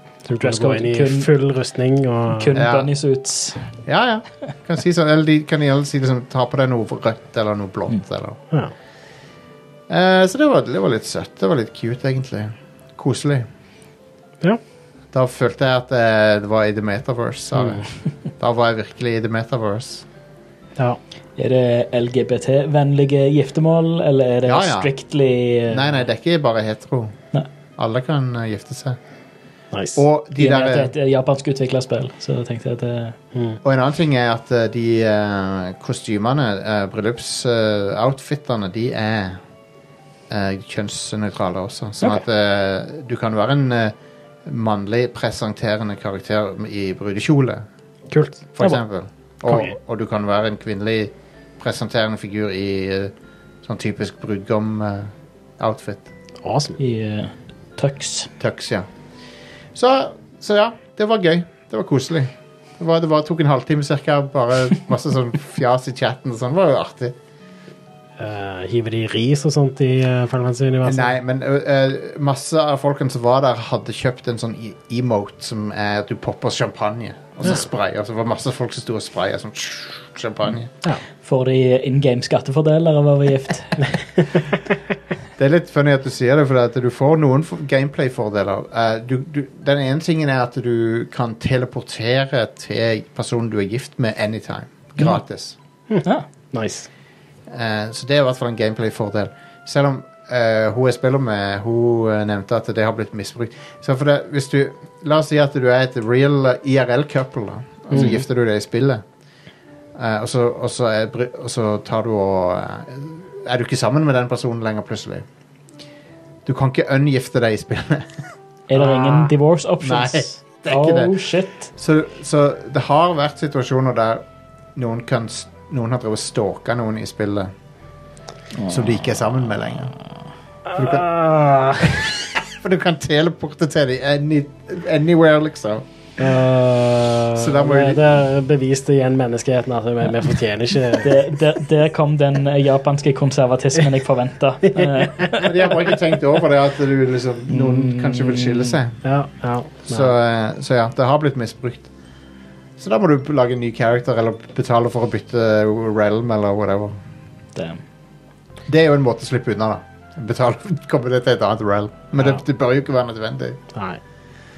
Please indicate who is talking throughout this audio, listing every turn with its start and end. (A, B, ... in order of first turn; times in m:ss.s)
0:00.2-0:02.6 A
0:00.4-0:01.3 B
0:02.3-0:03.7 B
0:02.5-0:02.9 C
0:03.8-0:08.4 C
0:09.9-0:13.5 C
0:15.1-0:17.8 C
0:17.5-0:17.8 A
0:18.4-0:20.0 C
0:21.4-0:26.0 B
0:24.4-0:24.9 C
0:25.7-0:27.2 C
0:27.8-0:29.0 C
0:29.7-0:30.0 A
0:29.9-0:30.9 C
0:30.4-0:33.2 B
0:33.3-0:33.6 A
0:33.6-0:39.4 C
0:40.3-0:43.9 C
0:44.4-0:47.6 C
0:48.1-0:48.4 A
0:48.5-0:53.1 C
0:49.5-0:49.8 A
0:53.6-0:56.1 C
0:56.4-0:56.8 A
0:56.8-0:58.3 B
0:58.4-0:58.9 C
0:59.7-1:07.1 C
1:08.2-1:11.1 A
1:10.8-1:20.7 C
1:21.2-1:23.9 B
1:25.4-1:35.6 C
1:35.9-1:36.9 A
1:37.5-1:49.0 C
1:47.9-1:48.2 A
1:50.0-1:55.2 C
1:56.4-1:58.2 C
1:58.7-2:01.7 B
1:58.8-1:59.3 A
1:59.8-2:01.1 C
2:01.7-2:04.2 C
2:04.7-2:07.5 C
2:08.6-2:09.1 B
2:08.7-2:09.9 C
2:10.7-2:11.9 A
2:10.7-2:11.1 C
2:11.8-2:15.8 C
2:16.2-2:21.2 A
2:17.3-2:18.0 C
2:21.0-2:25.7 B
2:25.4-2:29.0 C
2:27.5-2:28.8 B
2:29.0-2:30.1 A
2:29.9-2:31.9 C
2:32.8-2:37.0 C
2:37.5-2:37.8 B
2:38.7-2:43.6 C
2:43.7-2:44.0 A